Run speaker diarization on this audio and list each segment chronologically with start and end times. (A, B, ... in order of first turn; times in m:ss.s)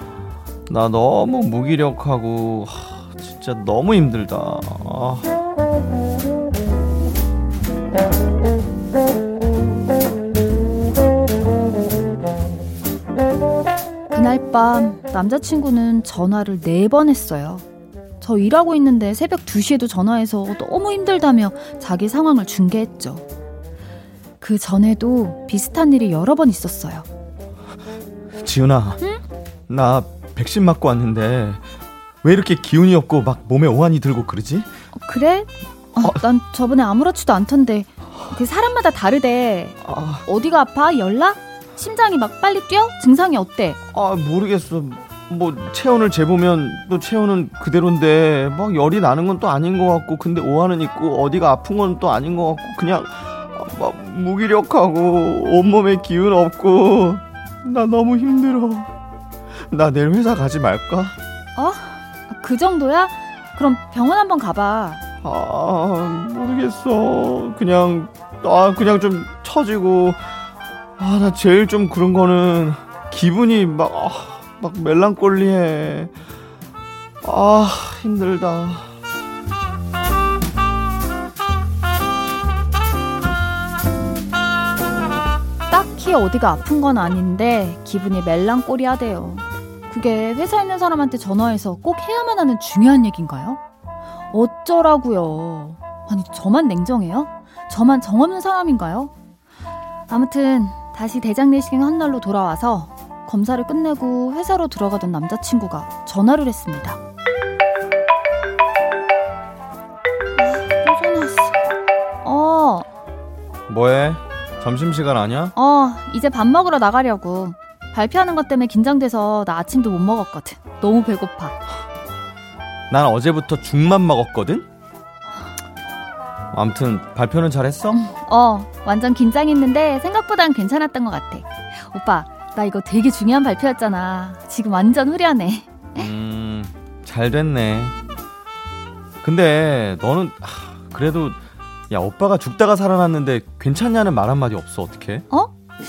0:00.7-0:05.3 A
0:14.1-0:17.6 B
0:18.2-0:23.2 B
0:24.4-0:27.1 B
0:28.4-0:29.0 A
0:29.7-0:31.6 A
0:32.2-0:34.7 A
0:35.0-0:43.8 B
0:39.8-0:40.2 A
0:43.9-0:58.9 A
0:59.6-1:01.2 A
1:01.6-1:05.0 B
1:05.2-1:10.2 A
1:11.0-1:16.1 A
1:17.2-1:18.9 A
1:25.7-1:33.6 B
1:34.3-1:39.1 B
1:40.1-1:47.0 B
1:50.4-1:51.6 B
1:52.2-1:52.9 B
1:53.7-1:55.5 A
1:55.6-2:01.6 B
2:02.9-2:04.7 A
2:06.5-2:08.0 A
2:07.9-2:16.1 B
2:16.0-2:17.9 A
2:19.2-2:21.4 A
2:21.9-2:25.2 A